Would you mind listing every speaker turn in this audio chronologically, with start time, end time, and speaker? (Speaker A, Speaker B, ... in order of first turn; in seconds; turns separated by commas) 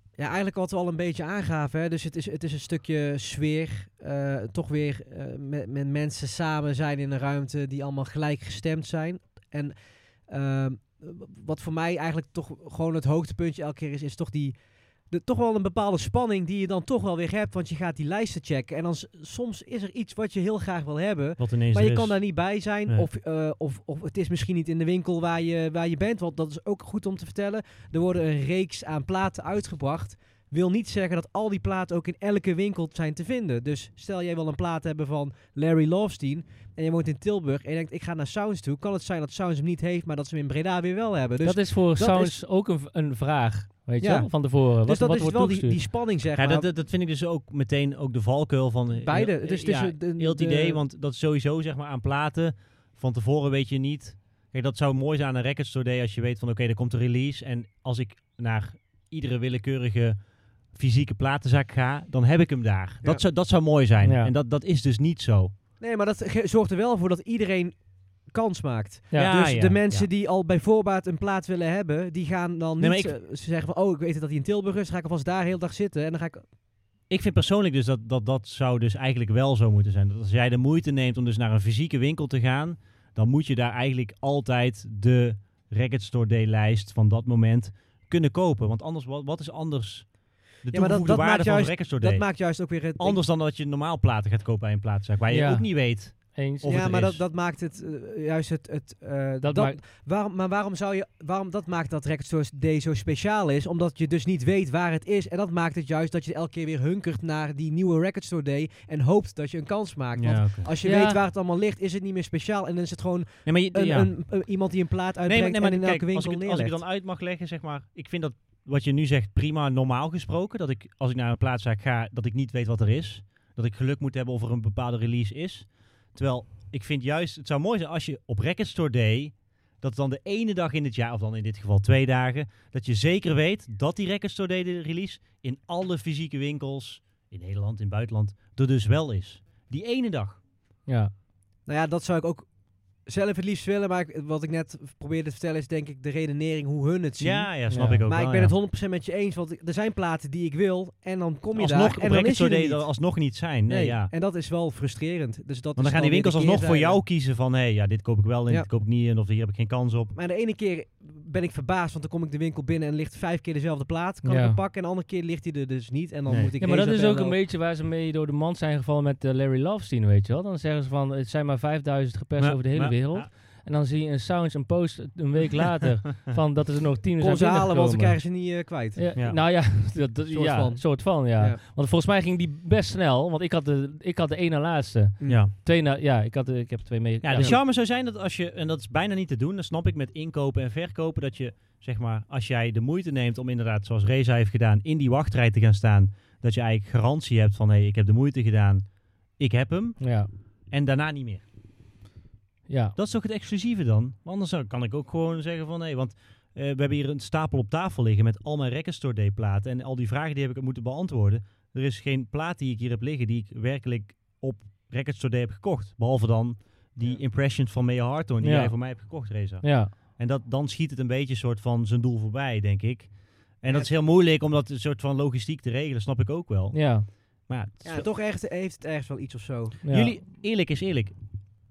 Speaker A: 0.2-9.7, Speaker A: 10.3-42.4, Speaker B: 21.4-22.3, Speaker C: 41.4-45.8, Speaker A: 44.0-46.7, Speaker B: 46.4-65.5, Speaker A: 49.0-50.8, Speaker C: 64.0-64.3, Speaker A: 65.8-76.5, Speaker C: 69.1-69.4, Speaker B: 69.1-70.1, Speaker B: 72.8-73.2, Speaker B: 77.1-97.2, Speaker A: 90.7-93.2, Speaker C: 95.3-96.9, Speaker A: 96.6-116.8, Speaker C: 99.4-99.8, Speaker B: 110.2-110.7, Speaker C: 110.8-111.2, Speaker B: 113.5-114.5, Speaker B: 115.2-140.4, Speaker C: 140.8-141.1, Speaker A: 141.7-153.0, Speaker B: 147.2-148.5, Speaker C: 147.7-148.0, Speaker B: 151.5-154.1, Speaker A: 153.7-157.0, Speaker B: 155.8-160.1, Speaker A: 160.1-167.4, Speaker C: 164.2-164.6, Speaker B: 166.3-166.5, Speaker C: 166.6-178.2, Speaker B: 172.4-173.3, Speaker A: 177.2-179.1, Speaker C: 178.9-187.6, Speaker B: 179.2-179.4, Speaker A: 180.3-181.6, Speaker A: 185.2-185.4, Speaker B: 185.3-185.5, Speaker B: 187.2-201.4, Speaker A: 187.3-187.6, Speaker C: 200.0-200.3, Speaker C: 202.7-202.9, Speaker B: 202.9-228.1, Speaker C: 218.4-219.9, Speaker A: 223.7-223.9, Speaker C: 226.7-227.1, Speaker A: 227.8-229.8, Speaker C: 229.8-230.1, Speaker B: 229.9-231.4